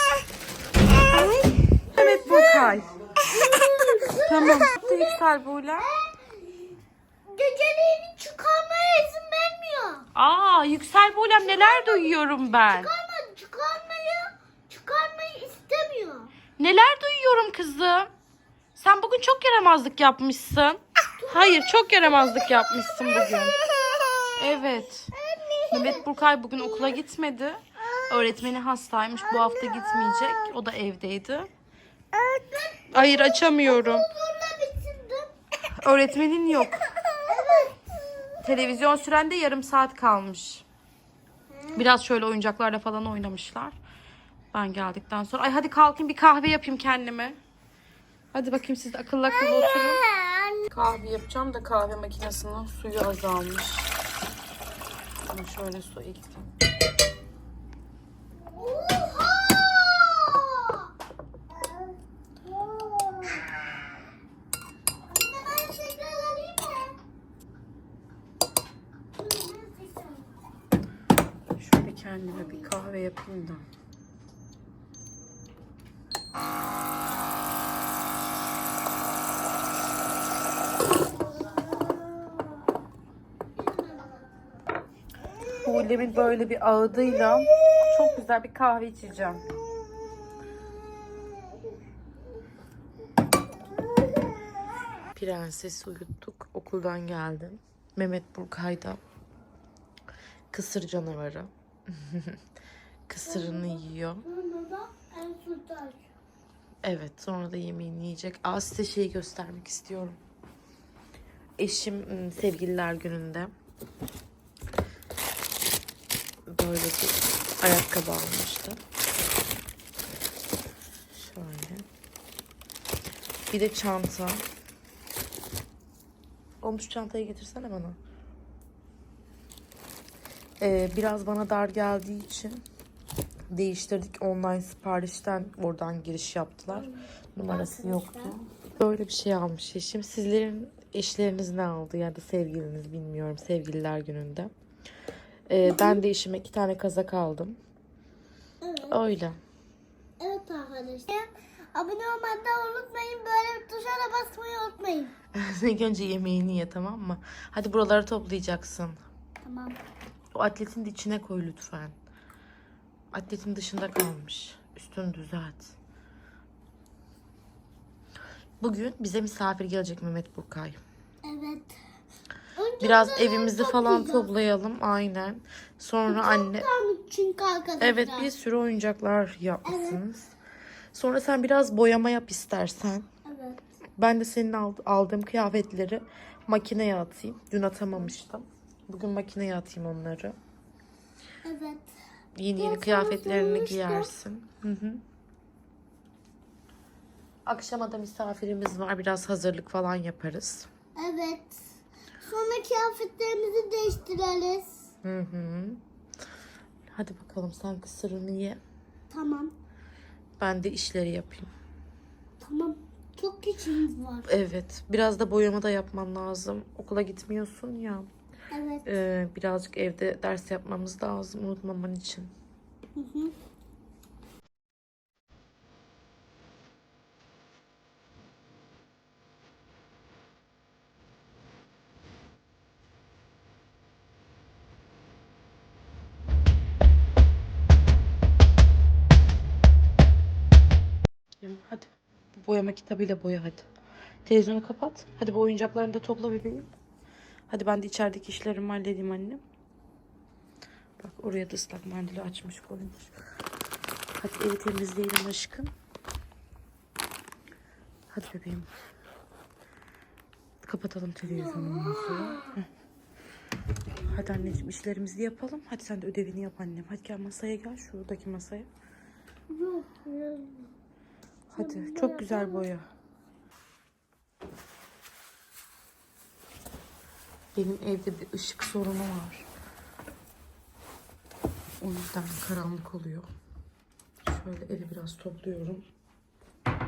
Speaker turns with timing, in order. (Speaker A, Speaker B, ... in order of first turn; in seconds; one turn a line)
Speaker A: 1.1-3.0
Speaker B: 1.9-5.1
Speaker A: 4.2-5.9
Speaker B: 5.8-6.4
Speaker B: 7.3-10.1
Speaker A: 10.2-12.9
Speaker B: 11.4-16.3
Speaker A: 16.6-18.1
Speaker A: 18.8-23.6
Speaker B: 21.2-21.7
Speaker B: 22.3-27.0
Speaker A: 24.4-25.1
Speaker A: 25.7-31.5
Speaker B: 29.3-30.4
Speaker B: 32.1-35.3
Speaker A: 32.9-34.1
Speaker A: 35.7-36.9
Speaker B: 37.2-37.9
Speaker A: 38.4-40.6
Speaker B: 41.5-41.8
Speaker A: 41.7-43.8
Speaker A: 44.5-47.4
Speaker A: 48.3-50.0
Speaker B: 49.3-50.7
Speaker A: 50.7-53.9
Speaker A: 55.3-56.5
Speaker B: 58.5-60.9
Speaker B: 61.6-63.5
Speaker B: 65.1-67.0
Speaker B: 69.2-70.3
Speaker A: 71.6-73.7
Speaker B: 81.5-82.5
Speaker B: 83.6-84.2
Speaker A: 85.6-89.5
Speaker B: 85.6-86.2
Speaker A: 95.1-99.0
Speaker A: 100.5-102.4
Speaker A: 103.1-104.3
Speaker B: 103.2-106.1
Speaker A: 106.8-110.2
Speaker A: 111.6-113.5
Speaker A: 116.5-118.8
Speaker A: 121.1-121.9
Speaker A: 123.5-124.5
Speaker A: 126.6-128.0
Speaker A: 130.6-132.6
Speaker A: 133.5-144.5
Speaker B: 136.7-138.3
Speaker A: 145.5-147.6
Speaker B: 145.7-146.0
Speaker B: 148.6-149.0
Speaker A: 148.9-149.4
Speaker B: 150.2-155.2
Speaker A: 155.3-159.0
Speaker B: 159.4-159.8
Speaker A: 160.3-161.9
Speaker A: 163.1-165.7
Speaker A: 168.6-170.8
Speaker B: 171.2-171.8
Speaker B: 172.6-174.3
Speaker A: 172.8-176.7
Speaker B: 176.1-178.3
Speaker A: 177.8-180.3
Speaker B: 179.7-180.0
Speaker A: 180.9-183.1
Speaker B: 183.2-183.6
Speaker A: 184.0-190.4
Speaker B: 191.4-191.9
Speaker A: 192.4-195.0
Speaker B: 192.6-194.1
Speaker A: 197.5-200.7
Speaker B: 201.0-201.6
Speaker B: 202.2-204.9
Speaker A: 205.0-205.8
Speaker A: 206.9-208.6
Speaker B: 209.1-209.5
Speaker A: 210.4-211.5
Speaker B: 212.4-214.3
Speaker A: 214.3-218.1
Speaker B: 218.5-218.9
Speaker A: 218.8-222.3
Speaker B: 223.0-223.3
Speaker A: 241.4-243.7
Speaker A: 244.3-246.7
Speaker A: 247.5-249.4
Speaker A: 251.0-253.1
Speaker A: 254.2-255.7
Speaker A: 258.1-258.7
Speaker A: 260.6-262.7
Speaker B: 261.3-262.6
Speaker A: 264.1-268.7
Speaker B: 264.1-264.5
Speaker B: 269.5-270.7
Speaker A: 271.5-272.9
Speaker B: 271.6-272.6
Speaker A: 277.6-279.5
Speaker A: 281.8-283.3
Speaker A: 284.2-285.8